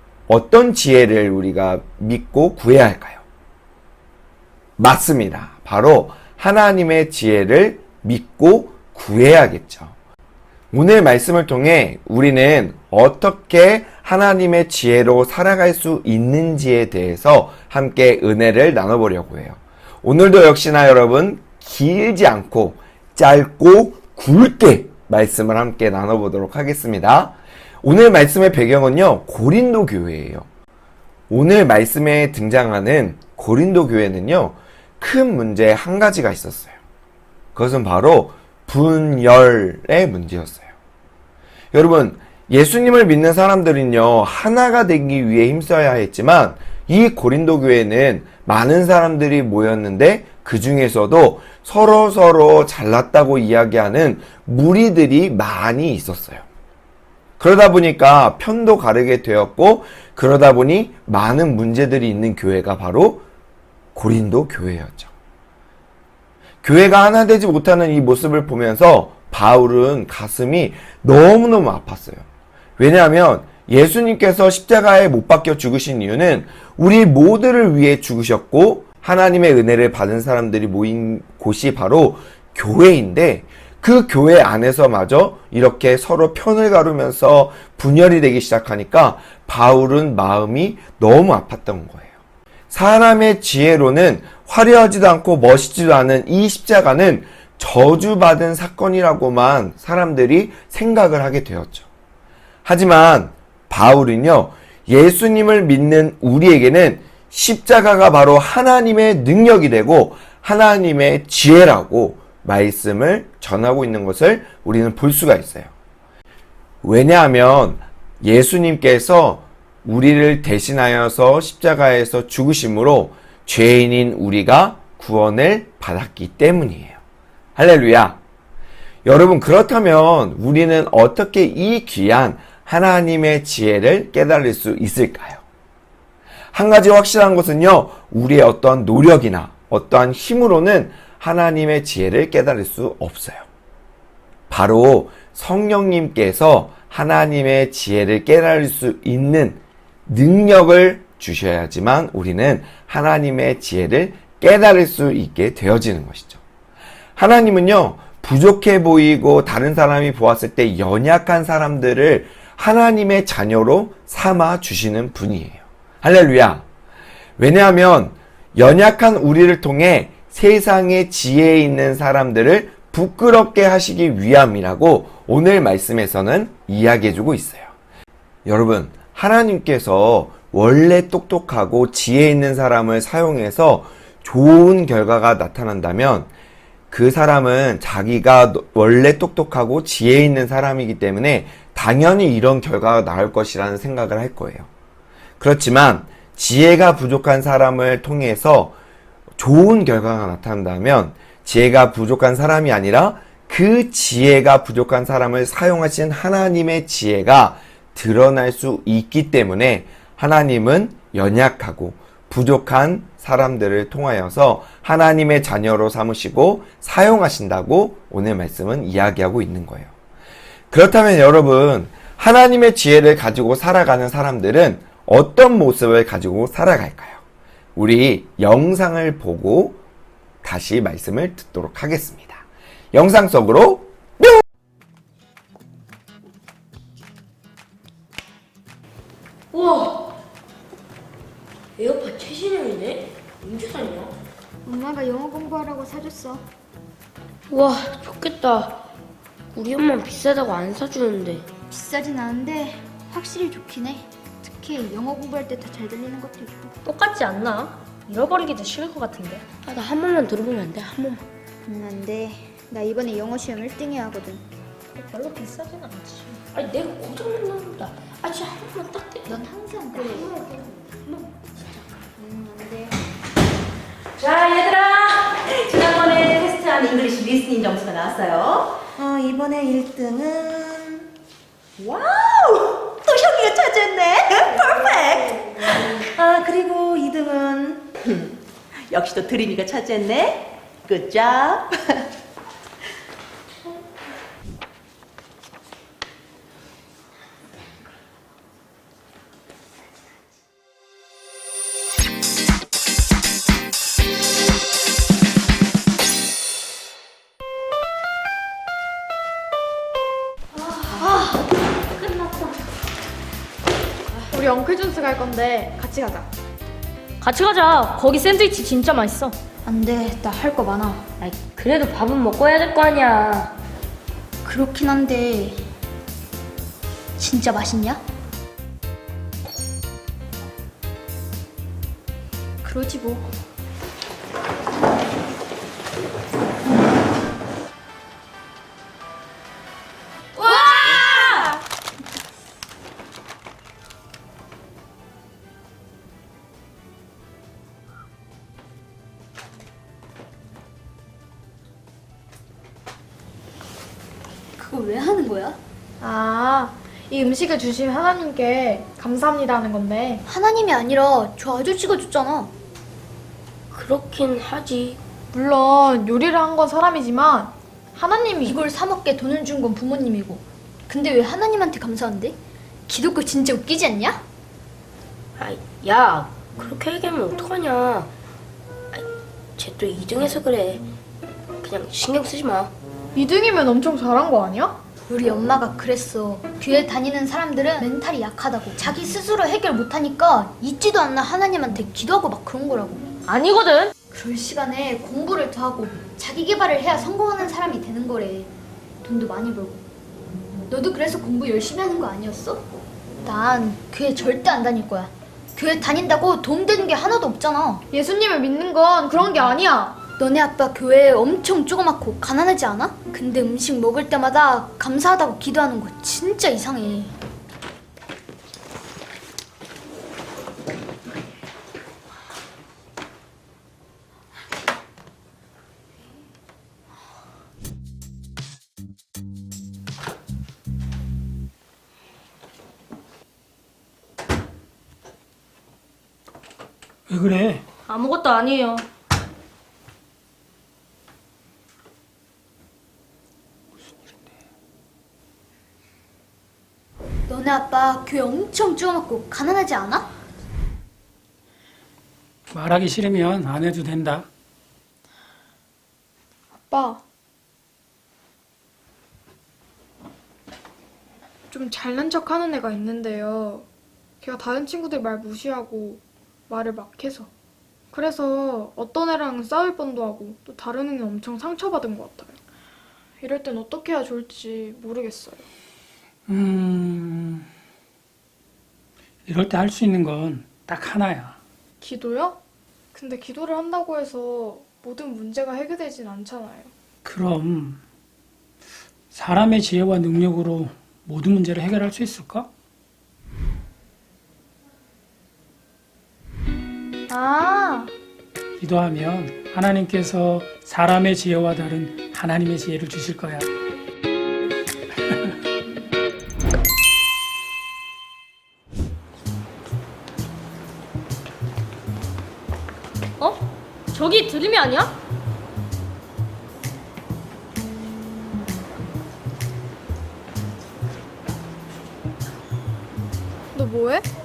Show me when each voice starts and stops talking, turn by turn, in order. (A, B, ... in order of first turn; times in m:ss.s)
0:00.3-0:03.2 A
0:04.8-0:10.0 A
0:10.7-0:30.5 A
0:31.3-0:36.8 A
0:37.6-0:40.7 A
0:41.7-0:56.4 A
0:57.4-1:03.2 A
1:04.0-1:05.1 A
1:06.6-1:12.3 A
1:12.8-1:32.1 A
1:32.7-1:41.9 A
1:42.6-1:55.7 A
1:56.8-2:07.0 A
2:07.6-2:08.2 A
2:09.0-2:15.4 A
2:16.5-2:23.5 A
2:24.5-2:36.4 A
2:37.2-2:46.7 A
2:47.4-2:57.7 A
2:58.4-3:06.3 A
3:06.9-3:14.7 A
3:15.4-3:18.8 A
3:19.4-3:39.9 A
3:40.7-3:47.2 A
3:47.8-3:49.8 A
3:50.4-3:54.4 A
3:59.5-4:00.0 B
4:01.8-4:04.1 B
4:04.6-4:06.5 C
4:07.5-4:08.8 B
4:09.5-4:11.5 B
4:11.7-4:16.7 C
4:16.8-4:19.4 D
4:19.7-4:21.2 B
4:21.7-4:24.4 C
4:25.0-4:26.4 D
4:26.5-4:29.5 B
4:29.3-4:30.3 C
4:30.0-4:30.5 B
4:32.2-4:33.0 C
4:34.2-4:41.1 E
4:41.8-4:48.3 E
4:48.9-4:52.0 E
5:11.0-5:11.4 C
5:14.3-5:16.3 F
5:17.2-5:19.4 D
5:19.6-5:21.0 C
5:21.2-5:23.5 B
5:24.4-5:25.7 C
5:27.2-5:28.0 C
5:32.6-5:33.3 C
5:40.6-5:41.2 D
5:54.6-5:55.6 C
5:56.0-6:00.2 F
6:00.3-6:02.5 C
6:03.7-6:05.0 B
6:05.3-6:08.6 F
6:08.4-6:14.2 C
6:15.4-6:18.1 B
6:19.6-6:20.8 B
6:21.6-6:22.7 B
6:23.2-6:24.8 F
6:25.1-6:33.0 C
6:33.3-6:33.9 D
6:34.1-6:38.5 C
6:39.0-6:39.8 C
6:40.7-6:42.7 C
6:43.2-6:47.8 C
6:47.9-6:50.0 F
6:50.2-6:57.2 C
7:17.1-7:17.6 G
7:17.9-7:18.8 D
7:27.3-7:30.1 C
7:32.5-7:34.3 G
7:36.6-7:37.0 F
7:41.5-7:43.7 F
7:44.2-7:47.3 F
7:47.9-7:52.4 F
7:53.2-7:55.5 F
7:56.3-7:57.5 G
7:59.3-8:01.4 G
8:01.8-8:02.4 F
8:02.9-8:06.7 F
8:07.0-8:07.8 G
8:09.1-8:12.5 G
8:17.1-8:17.9 F
8:18.6-8:23.5 G
8:33.9-8:34.9 D
8:43.5-8:44.1 F